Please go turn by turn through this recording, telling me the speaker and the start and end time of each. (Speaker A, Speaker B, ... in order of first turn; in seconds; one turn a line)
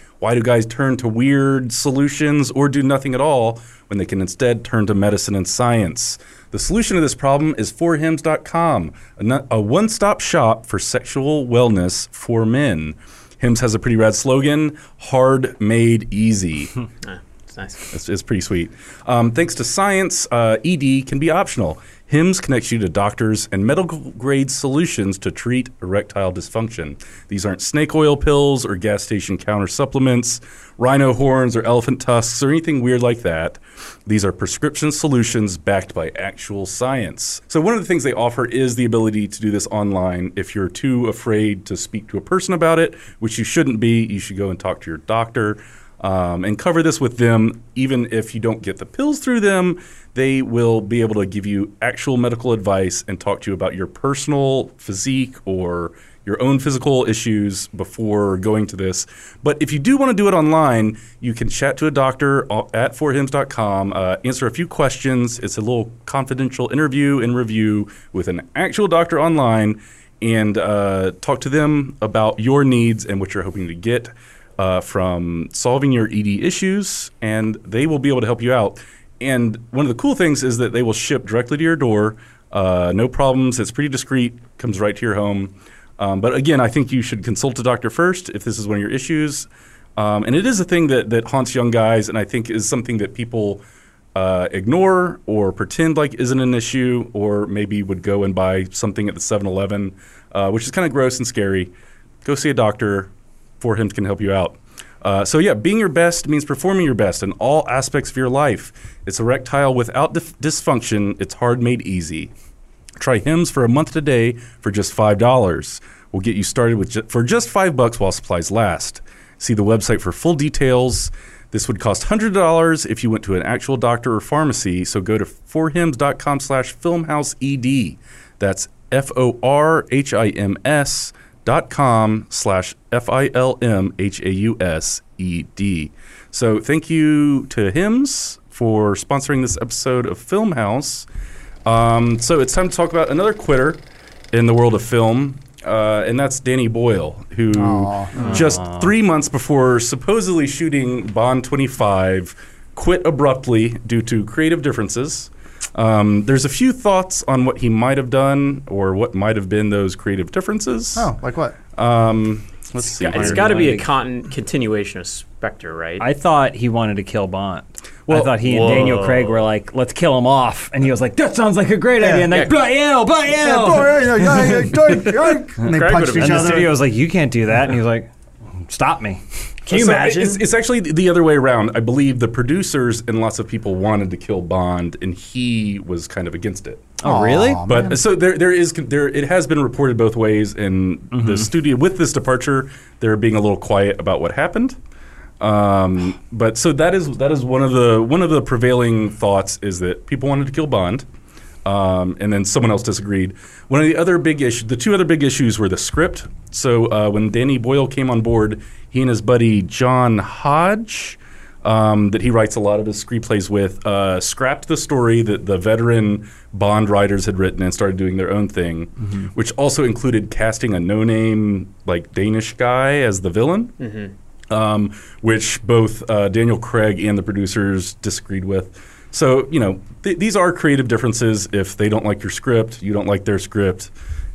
Speaker A: 0.2-16.8
Speaker B: 17.0-17.9
Speaker A: 17.9-93.6
Speaker A: 94.1-112.3
Speaker A: 113.0-141.1
Speaker A: 141.6-143.8
Speaker A: 144.3-161.1
Speaker C: 147.5-148.3
Speaker D: 148.2-148.9
Speaker C: 160.9-161.6
Speaker A: 161.8-163.7
Speaker B: 162.9-166.0
Speaker D: 163.1-163.9
Speaker D: 166.0-175.1
Speaker A: 168.1-168.4
Speaker B: 168.4-169.4
Speaker C: 172.0-172.3
Speaker C: 173.3-176.8
Speaker D: 175.6-180.1
Speaker B: 175.6-176.7
Speaker A: 179.7-187.0
Speaker B: 179.7-180.4
Speaker D: 187.0-187.6
Speaker C: 187.0-188.0
Speaker A: 187.6-194.8
Speaker D: 191.1-191.5
Speaker A: 195.4-201.1
Speaker A: 201.6-223.7
Speaker B: 223.8-224.1
Speaker A: 224.5-233.9